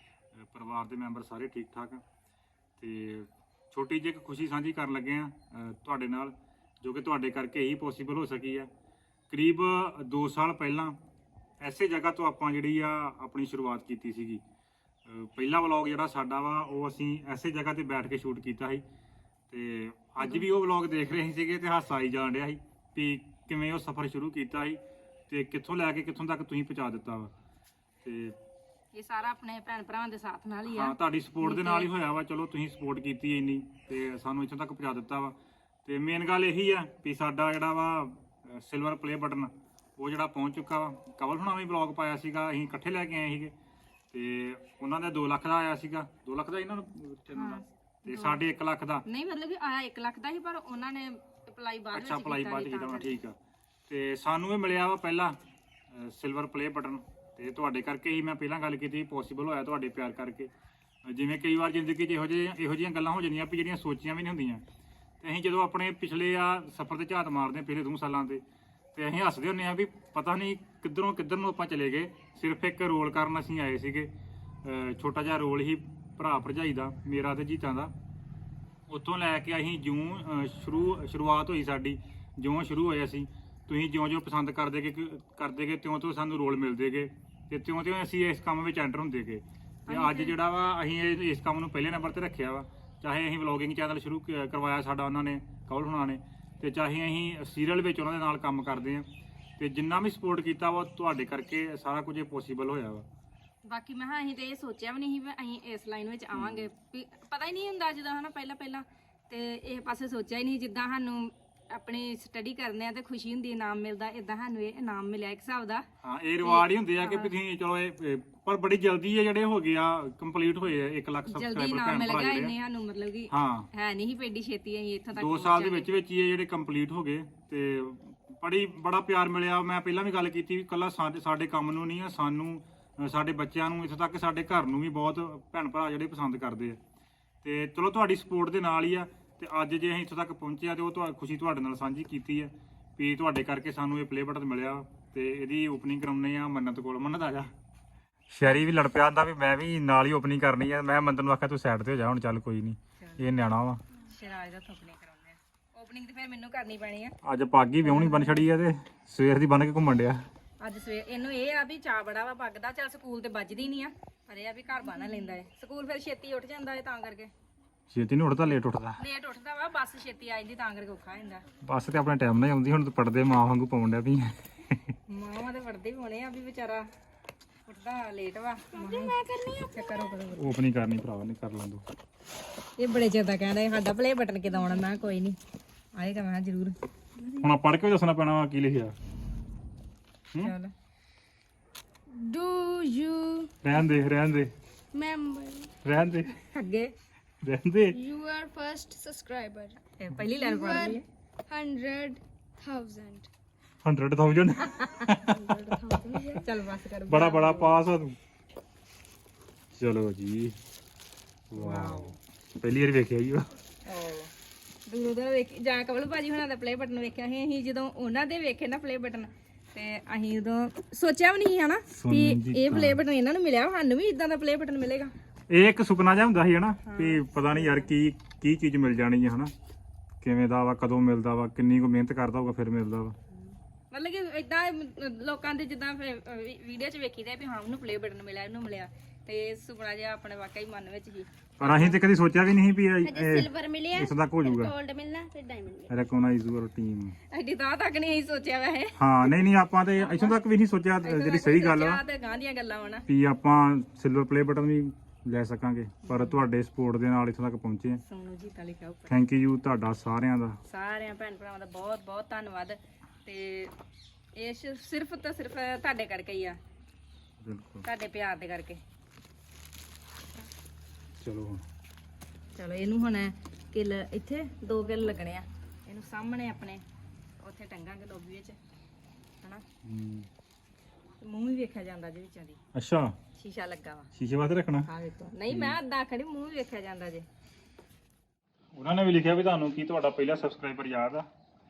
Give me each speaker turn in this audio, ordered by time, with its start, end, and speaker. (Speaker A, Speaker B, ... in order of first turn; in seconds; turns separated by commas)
Speaker A: 0.3-2.0, Speaker A: 2.8-8.7, Speaker A: 9.3-11.0, Speaker A: 11.6-14.4, Speaker A: 15.1-18.8, Speaker A: 19.5-27.3, Speaker B: 20.2-20.4, Speaker A: 28.0-28.4, Speaker B: 28.9-31.9, Speaker A: 30.7-43.5, Speaker A: 44.1-49.0, Speaker B: 47.3-48.4, Speaker B: 49.0-53.2, Speaker A: 51.9-53.4, Speaker A: 53.9-55.4, Speaker A: 55.9-60.5, Speaker A: 61.1-64.6, Speaker A: 65.2-68.4, Speaker A: 69.0-74.1, Speaker A: 74.6-77.9, Speaker A: 78.9-99.1, Speaker B: 89.9-90.3, Speaker A: 99.6-103.1, Speaker B: 103.6-115.8, Speaker A: 106.3-106.7, Speaker A: 116.0-122.5, Speaker B: 116.4-117.3, Speaker B: 121.3-125.9, Speaker A: 123.3-123.7, Speaker A: 125.2-136.8, Speaker A: 137.4-147.5, Speaker A: 148.3-153.8, Speaker B: 153.0-153.3, Speaker B: 154.0-157.2, Speaker A: 157.2-160.2, Speaker B: 157.8-158.4, Speaker B: 160.6-167.3, Speaker A: 167.9-169.0, Speaker B: 169.0-171.4, Speaker A: 171.6-174.9, Speaker B: 175.1-176.9, Speaker B: 177.7-180.5, Speaker C: 178.7-180.1, Speaker A: 180.3-181.8, Speaker B: 182.8-185.4, Speaker B: 186.0-186.8, Speaker A: 187.4-189.0, Speaker B: 190.4-190.7, Speaker C: 192.1-193.6, Speaker A: 193.6-194.5, Speaker C: 194.9-195.7, Speaker A: 195.8-196.3, Speaker B: 196.4-196.9, Speaker A: 197.4-198.0, Speaker C: 197.9-199.8, Speaker B: 200.0-201.1, Speaker C: 200.3-203.3, Speaker A: 203.8-205.6, Speaker B: 204.7-205.1, Speaker C: 205.3-206.4, Speaker B: 206.1-207.8, Speaker A: 207.1-208.2, Speaker A: 209.8-210.6, Speaker A: 211.5-213.5, Speaker B: 211.6-212.2, Speaker B: 213.8-214.3, Speaker B: 214.8-225.1, Speaker A: 221.9-223.0, Speaker A: 225.5-229.5, Speaker B: 226.8-227.9, Speaker A: 230.2-233.2, Speaker B: 233.9-242.0, Speaker A: 241.6-244.7, Speaker C: 243.0-245.9, Speaker A: 245.9-247.2, Speaker B: 247.3-249.3, Speaker A: 249.0-252.0, Speaker B: 250.0-250.4, Speaker B: 251.0-253.1, Speaker A: 253.1-258.0, Speaker B: 256.1-256.4, Speaker B: 258.0-259.2, Speaker A: 259.1-260.6, Speaker B: 260.7-263.7, Speaker B: 264.4-266.6, Speaker A: 267.4-267.9, Speaker B: 267.8-268.8, Speaker A: 271.2-271.6, Speaker B: 272.6-276.8, Speaker B: 277.4-278.6, Speaker A: 279.9-280.3, Speaker B: 281.2-282.6, Speaker A: 282.8-283.1, Speaker B: 283.4-284.1, Speaker A: 284.1-284.9, Speaker B: 284.9-287.2, Speaker A: 285.5-285.8, Speaker A: 288.7-291.3